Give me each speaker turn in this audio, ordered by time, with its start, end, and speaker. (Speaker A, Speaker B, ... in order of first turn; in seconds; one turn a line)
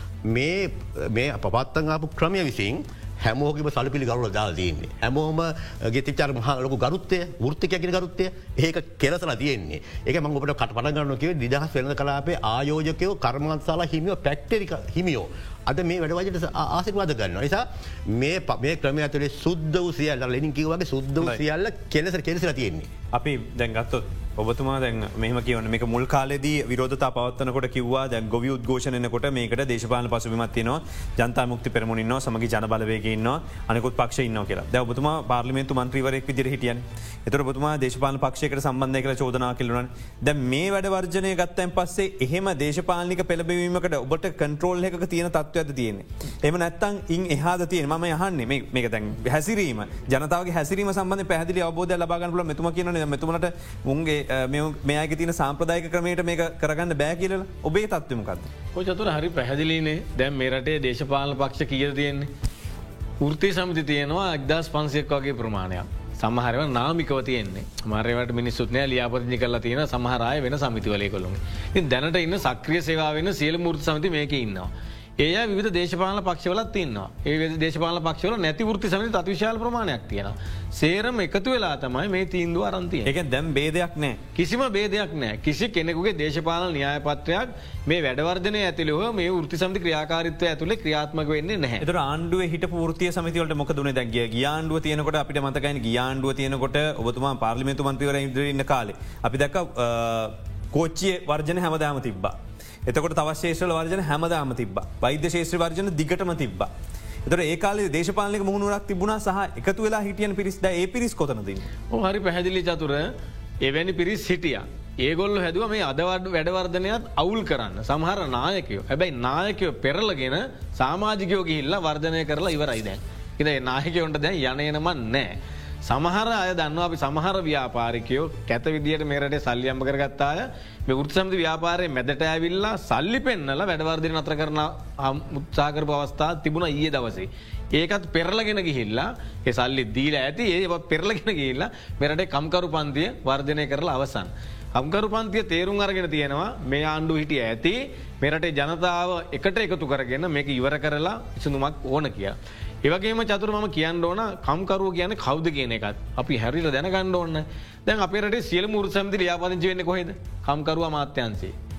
Speaker A: 0.2-22.9
Speaker B: 23.1-58.5
Speaker C: 58.7-62.3
Speaker C: 63.2-74.7
Speaker C: 75.2-83.1
Speaker B: 83.0-84.2
Speaker C: 84.3-91.8
Speaker B: 91.8-102.3
Speaker B: 102.9-106.7
Speaker B: 107.2-111.7
Speaker C: 111.9-113.1
Speaker C: 113.6-125.3
Speaker C: 125.8-161.5